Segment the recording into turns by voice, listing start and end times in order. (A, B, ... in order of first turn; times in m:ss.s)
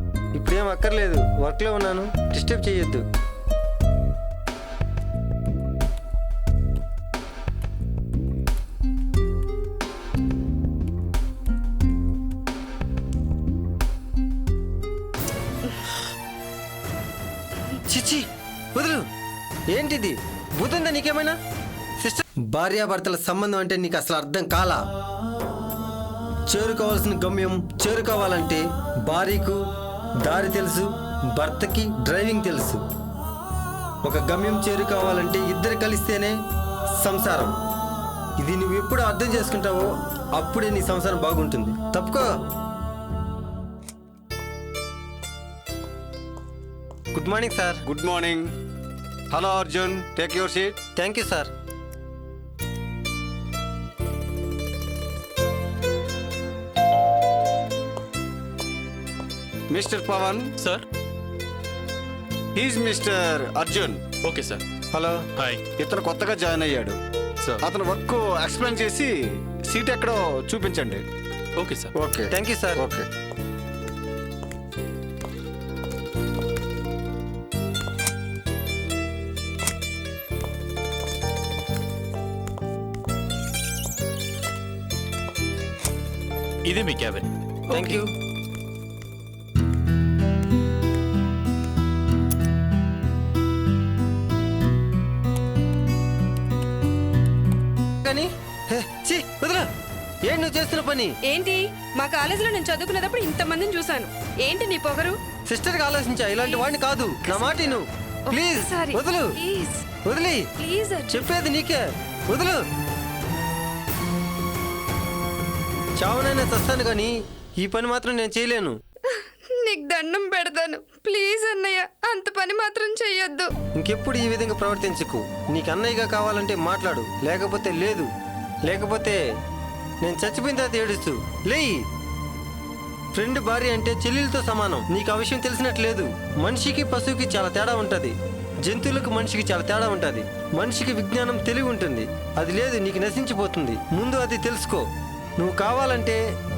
0:00.4-0:03.0 A
0:17.8-0:19.0 A
0:19.7-0:21.4 A
0:22.0-0:24.8 A
0:26.5-0:29.6 A
0:30.2-0:32.8 A
0:34.0-0:36.4 A
0:37.0-0:37.6 A
0:38.4-0:42.3 A
0:47.1-0:47.8 A
0:47.8-0:48.5 B
0:49.3-0:50.8 B
0:51.0-0:51.5 A
0:59.7-1:00.5 B
1:00.6-1:00.8 C
1:02.6-1:04.1 B
1:04.2-1:04.6 C
1:04.9-1:05.2 A
1:05.4-1:05.6 C
1:05.8-1:07.0 B
1:07.6-1:11.0 B
1:11.6-1:11.9 C
1:12.0-1:13.1 B
1:12.3-1:12.8 A
1:26.6-1:28.0 C
1:27.7-1:28.1 A
1:38.0-1:39.7 A
1:40.2-1:41.2 A
1:41.2-1:45.2 D
1:45.5-1:49.3 A
1:46.4-1:49.8 D
1:50.0-1:50.5 A
1:50.6-1:51.2 D
1:51.1-1:52.6 A
1:56.0-1:58.8 A
1:59.1-2:03.5 D
2:03.8-2:08.1 A
2:08.6-2:09.2 A
2:10.0-2:11.8 A
2:13.1-2:24.8 A
2:25.4-2:26.2 A